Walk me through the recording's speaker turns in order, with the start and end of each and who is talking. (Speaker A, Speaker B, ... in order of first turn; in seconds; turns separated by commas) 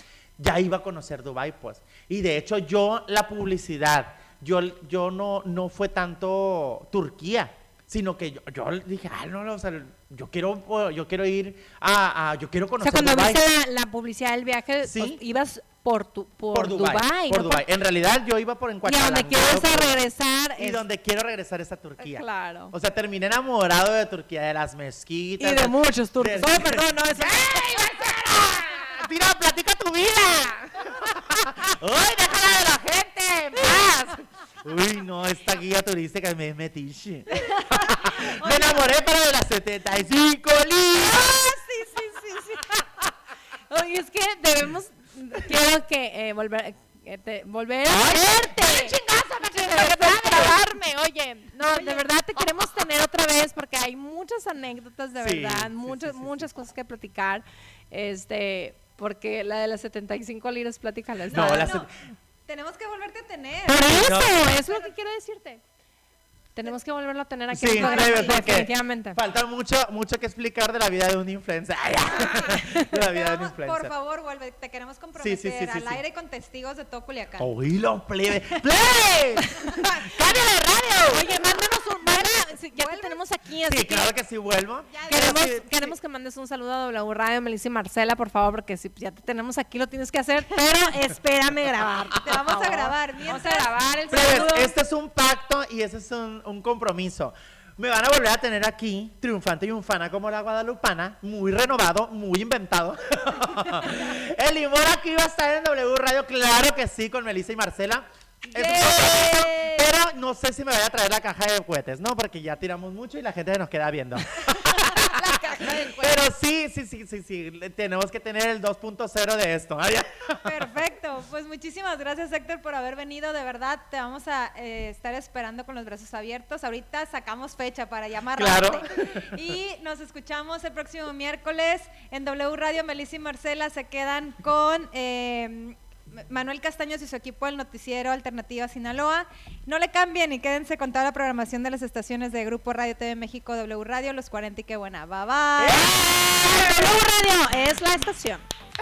Speaker A: 0.4-13.4, Speaker B: 12.8-17.6, Speaker A: 14.8-15.2, Speaker A: 16.5-20.0, Speaker B: 18.8-20.8, Speaker A: 20.6-41.5, Speaker B: 22.0-22.7, Speaker B: 25.4-27.6, Speaker B: 33.5-34.2, Speaker B: 37.3-38.8, Speaker B: 41.0-42.8, Speaker B: 43.7-48.9, Speaker A: 47.9-50.6, Speaker B: 49.5-61.7, Speaker C: 51.7-52.0, Speaker A: 55.2-56.5, Speaker C: 61.3-61.9, Speaker A: 61.3-61.9, Speaker C: 62.5-64.9, Speaker B: 63.7-65.6, Speaker A: 64.0-64.4, Speaker B: 66.5-69.2, Speaker A: 67.5-73.9, Speaker C: 67.7-68.4, Speaker C: 72.2-77.5, Speaker A: 75.2-76.0, Speaker A: 77.4-81.4, Speaker B: 79.8-80.0, Speaker B: 81.0-84.1, Speaker C: 82.0-83.2, Speaker A: 83.7-85.9, Speaker C: 84.9-85.5, Speaker B: 85.1-94.7, Speaker C: 92.2-94.5, Speaker A: 94.1-120.6, Speaker C: 108.5-109.8, Speaker B: 108.8-109.0, Speaker B: 114.9-116.1, Speaker C: 115.0-116.1, Speaker C: 120.4-146.0, Speaker A: 128.3-129.4, Speaker A: 145.6-146.6, Speaker B: 145.7-148.4